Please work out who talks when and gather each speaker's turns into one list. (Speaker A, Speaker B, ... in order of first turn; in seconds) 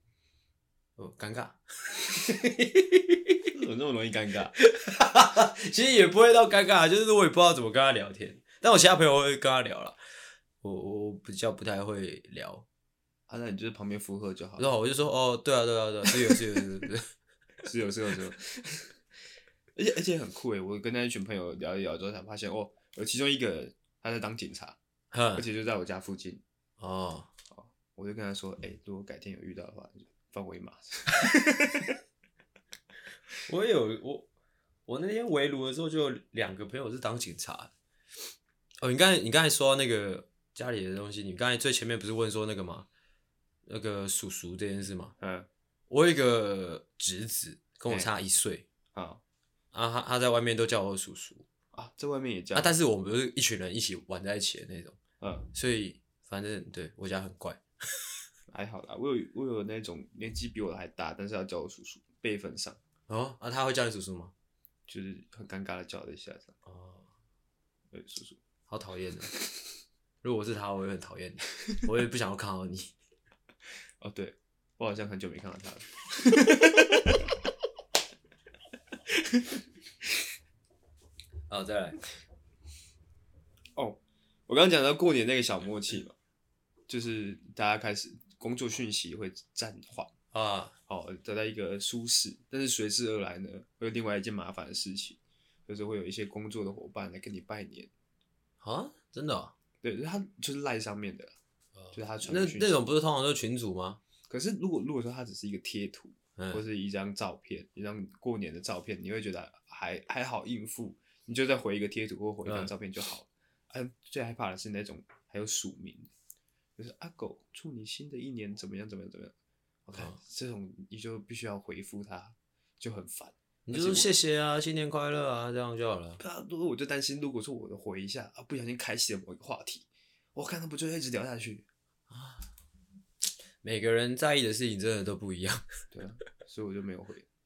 Speaker A: 1.0-3.4, 4.6-10.0, 10.6-12.7, 14.6-17.0, 25.1-25.5, 26.8-27.3, 33.5-34.3, 34.9-37.7, 38.8-42.9, 43.7-45.1, 45.9-48.6, 49.7-51.5, 52.5-55.0, 55.5-57.6, 63.1-64.3, 66.7-67.1, 68.7-69.3, 70.2-72.9, 81.5-82.0, 90.3-90.7, 98.6-99.5, 101.8-104.0, 106.4-106.6, 112.5-112.7, 123.7-126.2, 132.1-132.5, 133.6-135.7
Speaker B: 3.5-4.5, 13.3-14.7, 17.6-18.9, 19.8-24.8, 25.4-26.4, 27.5-31.9, 45.2-45.5, 47.9-48.1, 48.9-49.2, 51.7-52.7, 55.2-55.5, 58.5-62.8, 64.9-66.5, 67.9-68.4, 74.0-77.2, 79.2-79.5, 83.8-86.2, 86.9-90.1, 90.9-97.9, 99.8-101.4, 101.9-102.7, 104.3-116.1, 116.8-119.3, 119.9-124.1, 126.2-131.7, 135.9-137.3